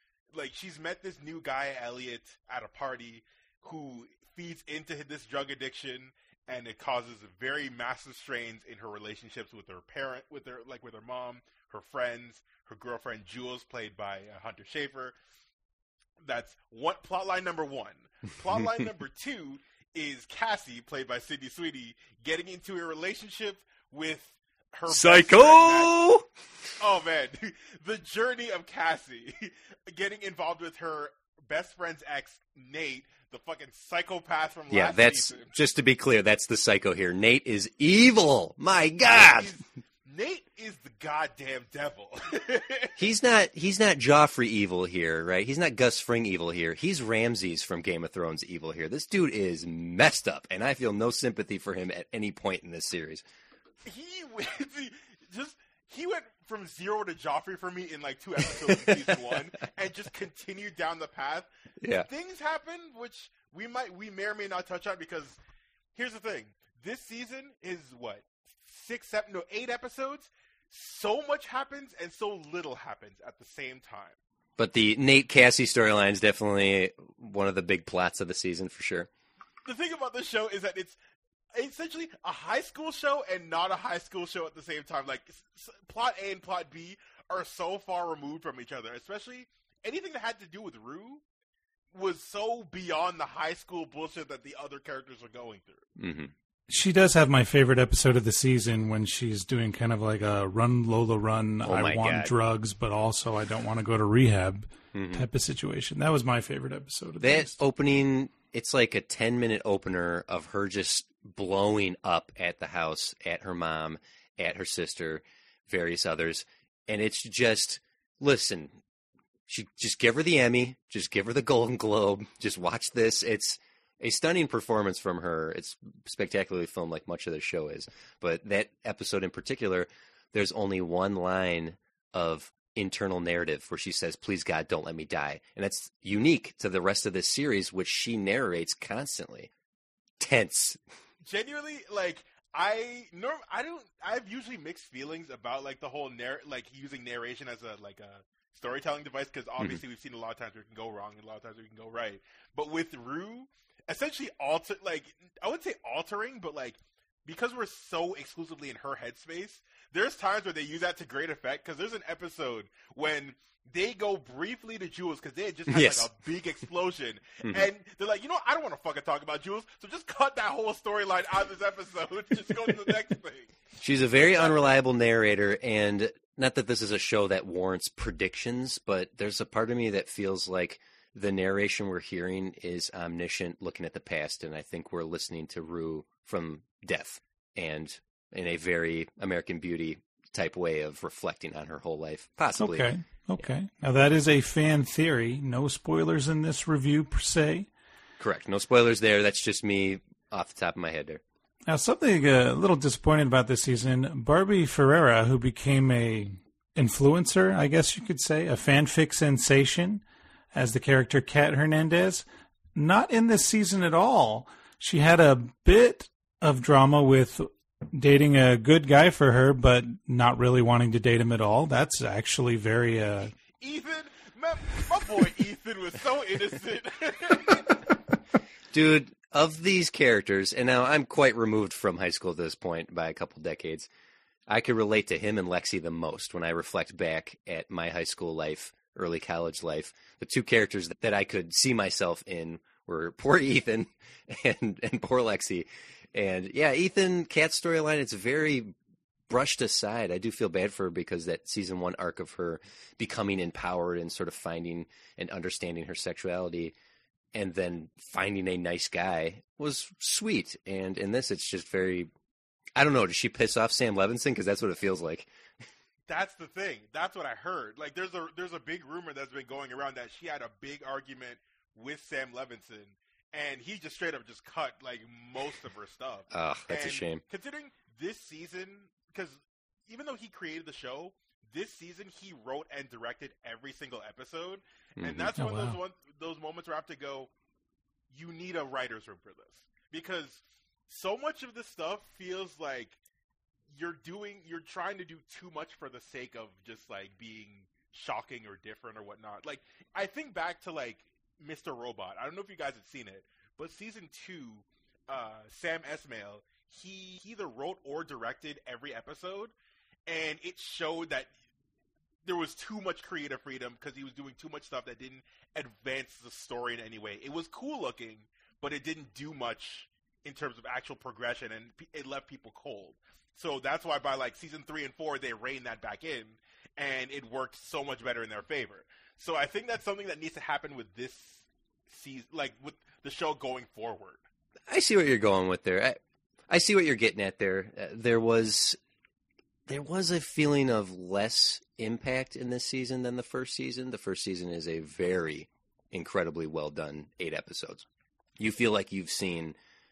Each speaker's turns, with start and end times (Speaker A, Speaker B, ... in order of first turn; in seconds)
Speaker A: 0.3-15.2, 16.2-25.9, 26.8-35.5, 39.1-43.0, 53.8-61.5, 62.1-65.4, 65.9-74.2, 79.7-81.0, 81.5-91.2, 91.9-95.8, 141.2-173.5, 174.2-174.6, 223.6-227.7, 266.1-287.3, 288.1-293.0, 293.7-309.5, 310.1-311.3, 312.2-334.2
Speaker B: 24.9-26.3, 34.7-39.5, 43.0-53.2, 58.7-59.1, 61.8-62.1, 74.6-79.1, 96.0-96.3, 101.6-102.3, 104.9-105.3, 107.2-118.8, 119.5-139.5, 140.2-140.8, 165.7-166.1, 173.8-192.9, 198.2-201.2, 228.7-233.9, 234.5-248.7, 249.3-256.7, 257.3-262.1, 262.8-265.3, 276.3-277.2, 285.0-285.3, 334.7-336.0, 336.5-338.8, 339.7-347.9, 348.4-349.6
Speaker C: 96.7-107.5, 192.6-197.7, 201.7-210.0, 210.5-223.3, 285.4-285.8